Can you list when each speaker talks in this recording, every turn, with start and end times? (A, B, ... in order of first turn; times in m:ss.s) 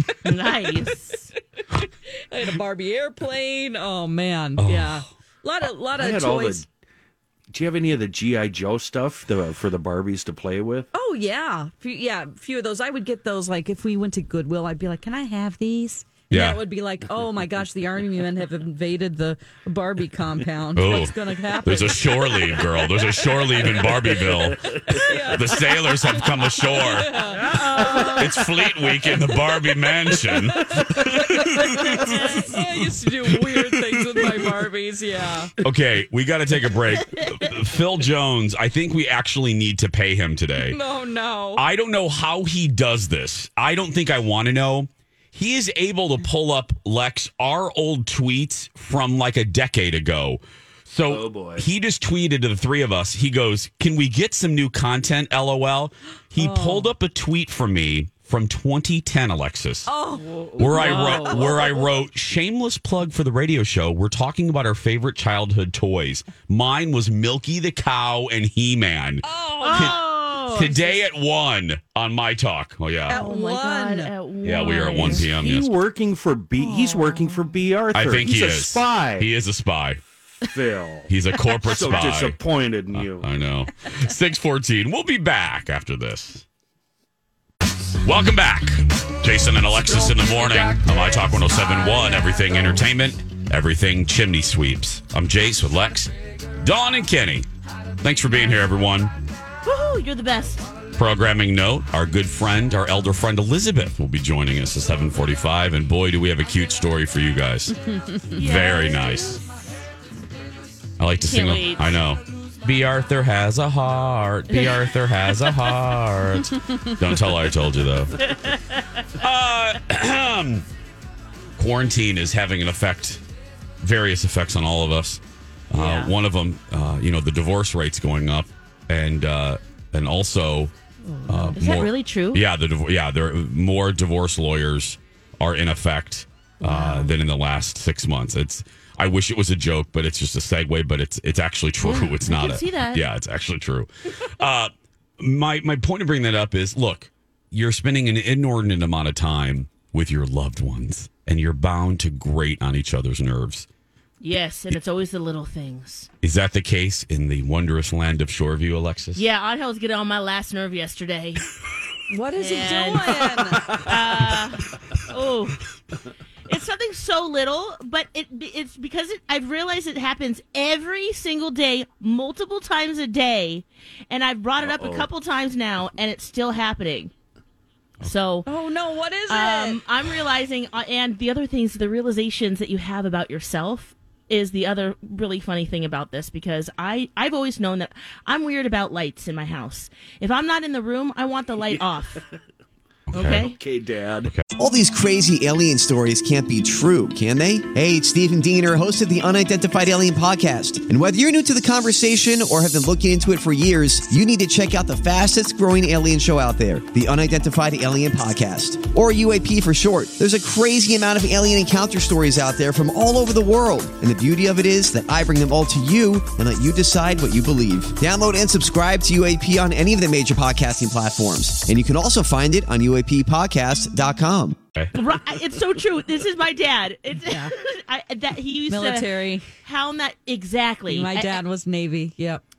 0:00.2-0:01.3 A
0:00.3-0:00.8 B
0:02.3-0:06.6 B
0:04.6-0:05.0 C
0:06.0-0:06.7 D
0:07.5-0:10.9 D
0:10.9-0:22.7 B
0:16.3-0:16.6 C
0:20.7-0:27.2 C
0:23.6-0:25.4 D
0:24.6-0:28.3 B
0:27.3-0:28.3 A
0:27.3-0:28.2 D
0:28.1-0:34.5 C
0:30.6-0:35.5 B
0:35.6-0:40.8 C
0:37.1-0:37.5 A
0:40.6-0:41.6 B
0:41.6-0:59.9 C
0:51.1-0:51.6 D
0:56.4-0:56.9 B
0:59.9-1:01.6 B
1:00.4-1:01.8 A
1:00.6-1:13.2 C
1:00.6-1:01.0 D
1:09.2-1:10.0 B
1:09.6-1:11.0 A
1:13.1-1:14.1 B
1:13.1-1:15.2 A
1:14.4-1:15.7 C
1:15.0-1:19.3 D
1:16.6-1:17.5 A
1:17.9-1:20.0 C
1:20.4-1:21.1 D
1:21.1-1:22.4 C
1:21.6-1:23.3 D
1:21.7-1:22.1 A
1:22.9-1:26.4 C
1:28.0-1:37.5 C
1:38.0-1:39.1 C
1:39.6-1:40.6 A
1:41.0-1:47.8 C
1:48.3-1:49.4 A
1:48.3-1:49.4 C
1:51.0-1:58.2 C
1:51.2-1:52.0 A
1:58.2-1:59.1 A
1:59.2-2:00.6 C
2:01.6-2:03.2 C
2:03.8-2:10.7 C
2:05.7-2:06.1 A
2:11.0-2:12.4 A
2:11.3-2:33.7 C
2:16.6-2:17.2 A
2:21.8-2:23.0 A
2:34.2-2:36.1 A
2:36.2-2:39.2 C
2:39.1-2:41.4 A
2:42.1-2:43.7 B
2:42.4-2:45.6 A
2:43.5-2:43.8 D
2:46.4-2:57.1 A
2:54.6-2:55.1 D
2:58.0-2:58.5 A
2:58.5-2:59.8 B
2:59.3-3:12.2 A
3:11.7-3:12.4 D
3:13.1-3:13.5 C
3:13.1-3:13.6 A
3:13.2-3:14.3 D
3:14.5-3:44.6 E
3:44.9-3:51.4 A
3:48.7-3:49.4 B
3:50.9-3:52.4 B